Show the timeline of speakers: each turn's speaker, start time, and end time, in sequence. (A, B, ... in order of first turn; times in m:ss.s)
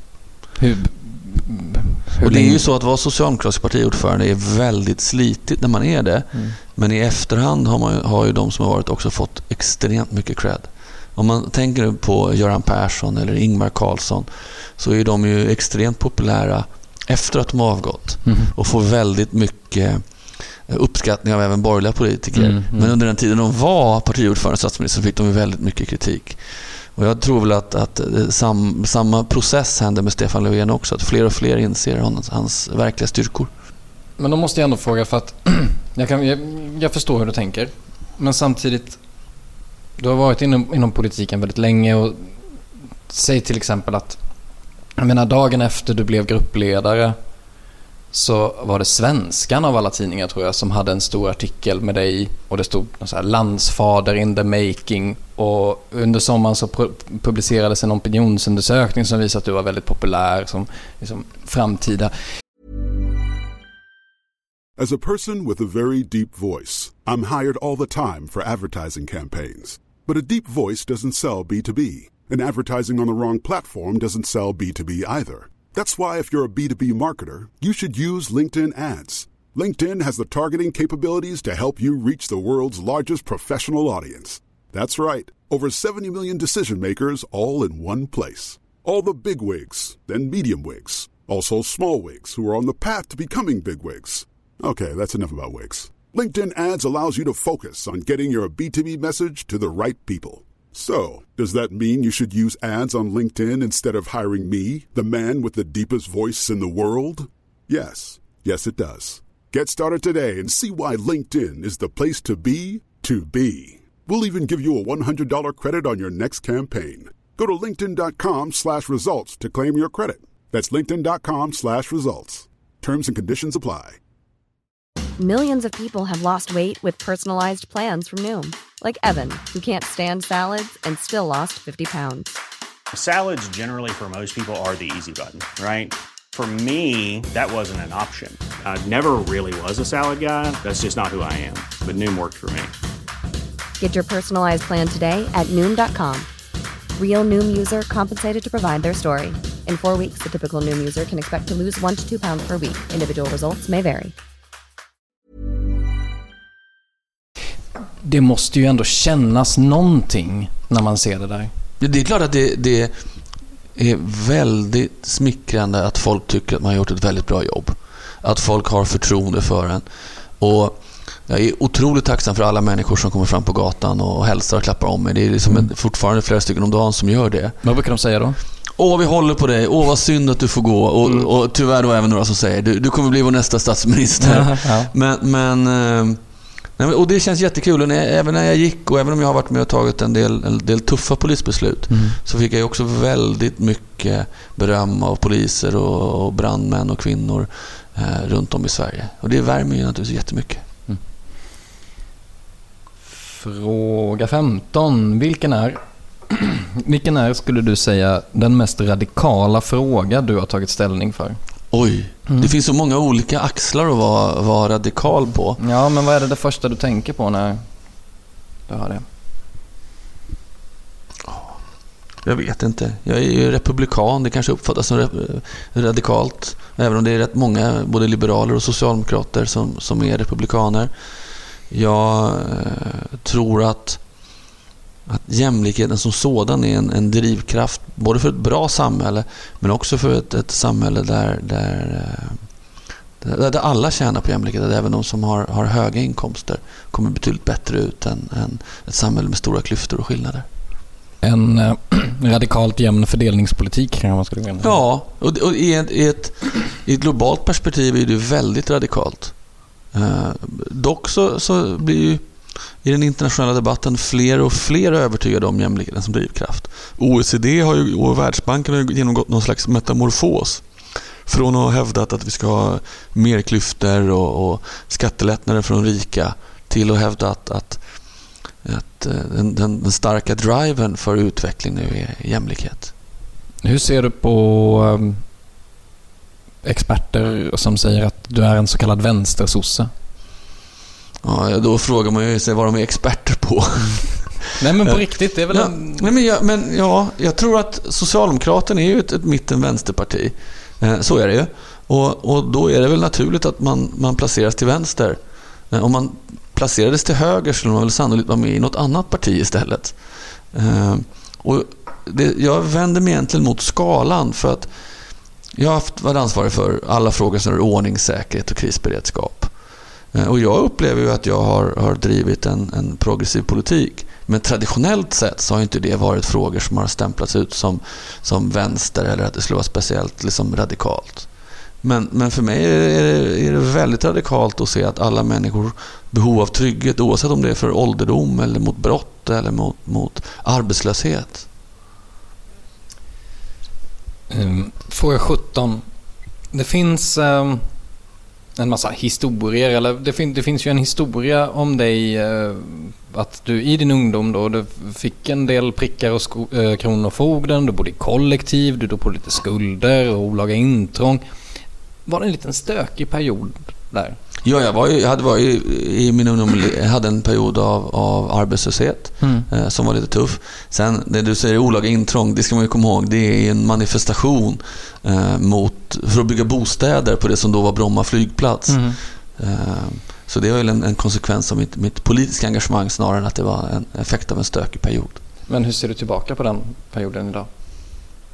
0:00.6-0:02.6 A
0:02.2-0:33.5 B
0:18.2-0:18.5 A
0:22.3-0:22.9 A
0:34.2-0:39.0 A
0:40.0-0:42.4 A
0:43.1-0:44.2 A
0:45.0-0:47.2 A
0:48.1-1:02.1 A
1:04.8-2:04.0 C
2:05.2-2:12.4 D
2:12.9-2:22.7 E
2:23.8-2:26.3 D
2:27.0-2:34.1 D
2:38.0-2:41.5 A
2:41.8-2:42.9 B
2:43.8-2:49.8 B
2:50.4-2:57.6 B
2:55.4-2:55.7 A
2:57.6-2:58.4 A
2:58.8-3:06.2 B
3:04.2-3:04.9 A
3:06.8-3:20.6 B
3:11.9-3:12.2 A
3:23.0-3:31.4 A
3:31.7-3:35.6 B
3:35.6-3:37.7 A
3:38.7-3:39.0 A
3:41.2-3:41.6 B
3:42.2-3:50.9 B
3:51.7-3:54.0 B
3:55.1-4:02.4 B
4:03.2-4:10.5 B
4:11.2-4:14.8 A
4:14.6-4:19.3 B
4:19.9-4:22.2 B
4:22.8-4:30.6 B
4:31.2-4:37.8 B
4:38.6-4:42.9 B
4:43.6-4:45.2 A
4:46.6-4:49.9 A
4:51.2-4:54.9 B
4:53.8-4:56.1 A
4:55.5-5:05.2 B
5:05.7-5:10.0 B
5:10.5-5:14.7 B
5:15.5-5:19.5 B
5:20.1-5:31.3 B
5:31.8-5:41.5 B
5:44.3-5:45.8 A
5:46.5-5:47.7 A
5:48.6-6:01.2 A
6:02.0-6:04.2 A
6:04.4-6:25.2 B
6:09.2-6:09.5 A
6:18.7-6:19.0 A
6:25.5-6:27.5 A